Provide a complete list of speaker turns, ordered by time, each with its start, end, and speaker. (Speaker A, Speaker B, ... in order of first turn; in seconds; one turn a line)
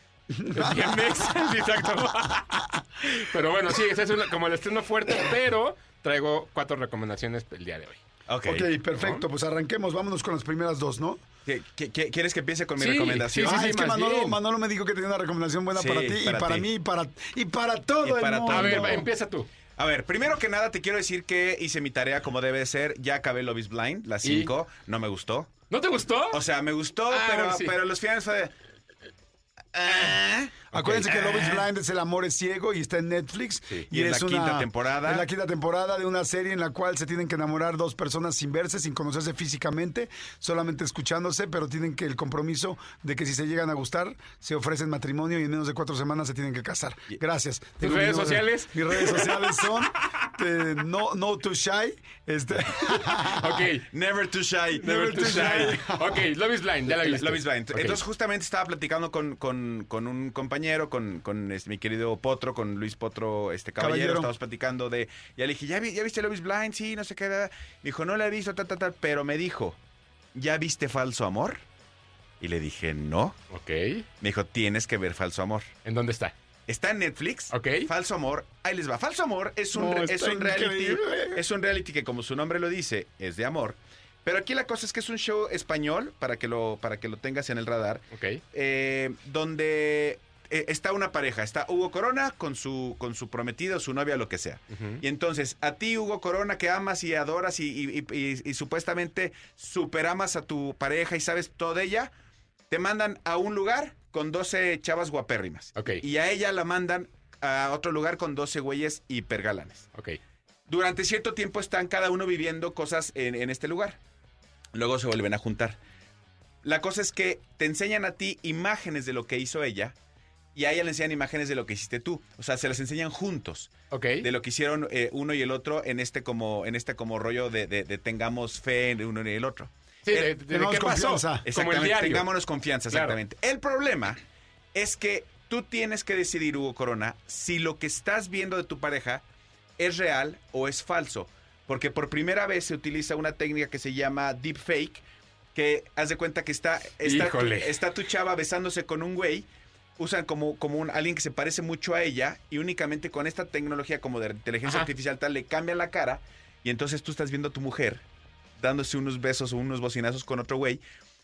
Speaker A: 0.3-1.1
Speaker B: 0.5-8.0
Speaker C: 8.3-8.7
Speaker A: 8.5-11.2
Speaker B: 8.9-9.2
Speaker C: 11.4-13.7
Speaker B: 12.8-14.4
Speaker A: 13.4-19.1
Speaker C: 15.7-16.7
Speaker C: 18.0-19.1
Speaker B: 18.5-19.5
Speaker C: 19.8-25.5
Speaker B: 24.2-24.5
Speaker B: 25.7-26.4
Speaker C: 26.3-28.5
Speaker B: 27.1-27.8
Speaker C: 29.7-31.7
Speaker B: 29.9-30.1
Speaker B: 30.7-31.1
Speaker A: 30.7-53.6
Speaker C: 33.9-35.3
Speaker B: 47.8-49.8
Speaker B: 52.8-53.9
Speaker C: 53.9-55.8
Speaker A: 54.8-56.2
Speaker B: 54.8-58.0
Speaker C: 56.9-69.8
Speaker A: 63.8-64.3
Speaker C: 70.3-71.6
Speaker C: 72.4-73.3
Speaker B: 73.5-74.1
Speaker C: 74.2-75.7
Speaker B: 75.8-76.3
Speaker C: 76.7-102.1
Speaker B: 77.5-77.9
Speaker A: 79.7-81.4
Speaker B: 88.1-88.4
Speaker B: 94.7-95.0
Speaker C: 102.7-109.8
Speaker B: 105.8-106.0
Speaker B: 109.9-110.2
Speaker C: 110.7-114.0
Speaker C: 114.8-115.8
Speaker C: 116.6-119.9
Speaker C: 120.5-130.3
Speaker B: 123.9-124.3
Speaker B: 130.0-132.3
Speaker A: 130.5-131.5
Speaker C: 131.4-134.2
Speaker B: 132.9-133.2
Speaker C: 134.7-139.2
Speaker C: 139.8-145.0
Speaker C: 145.5-158.0
Speaker B: 147.0-147.8
Speaker C: 158.6-160.8